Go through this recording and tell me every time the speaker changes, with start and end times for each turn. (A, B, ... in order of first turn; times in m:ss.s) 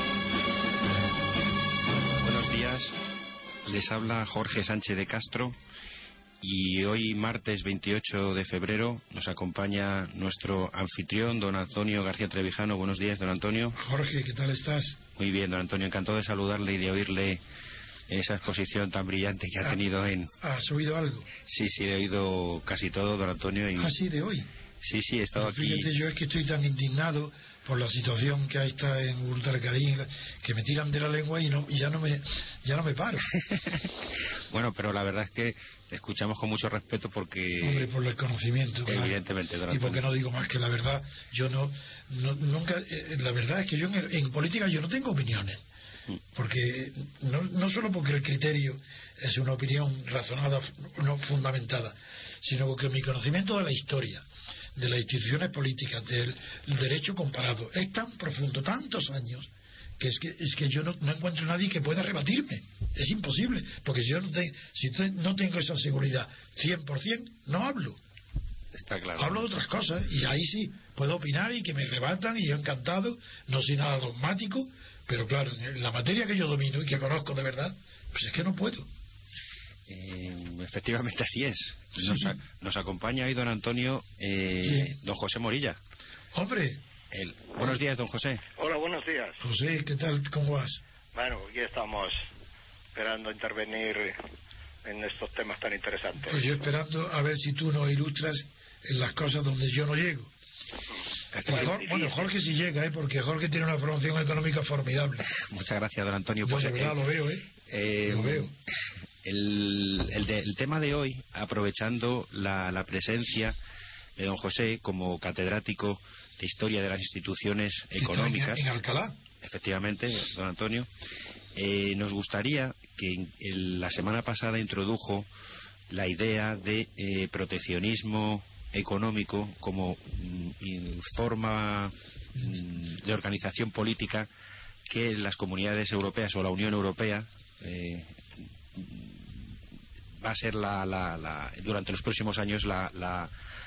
0:02.2-0:02.9 A
0:03.6-0:05.6 A
0:06.4-0:13.8 A
0:13.8-0:15.0 B
0:15.2-0:17.4 A
0:18.1-0:20.3 A
0:20.4-0:21.3 B
0:21.4-0:23.9 A
0:23.8-0:24.5 B
0:24.8-0:25.9 A
0:25.4-0:33.3 B
0:33.3-0:33.9 A
0:34.5-0:37.9 A
0:37.6-0:39.2 B
0:38.9-0:40.0 A
0:39.7-0:45.6 B
0:46.3-0:54.2 B
0:54.8-1:08.0 B
1:08.7-1:09.4 A
1:09.2-1:18.9 B
1:19.9-1:25.8 A
1:22.0-1:22.4 B
1:24.6-1:24.9 B
1:26.3-1:26.8 B
1:27.1-1:28.4 A
1:28.6-1:29.4 C
1:29.4-1:30.8 B
1:31.1-1:32.2 C
1:32.9-1:34.2 C
1:34.8-1:36.6 C
1:36.2-1:40.3 B
1:41.3-1:41.8 A
1:41.4-1:45.3 B
1:41.5-1:42.3 C
1:45.3-1:47.0 A
1:46.4-1:47.5 B
1:47.6-1:48.6 A
1:48.1-1:48.5 B
1:49.2-1:53.6 A
1:54.2-1:58.6 A
1:58.0-1:59.2 B
1:59.4-2:00.9 A
2:01.6-2:05.3 A
2:05.9-2:14.3 A
2:14.9-2:18.2 A
2:18.7-2:19.5 A
2:20.2-2:23.3 A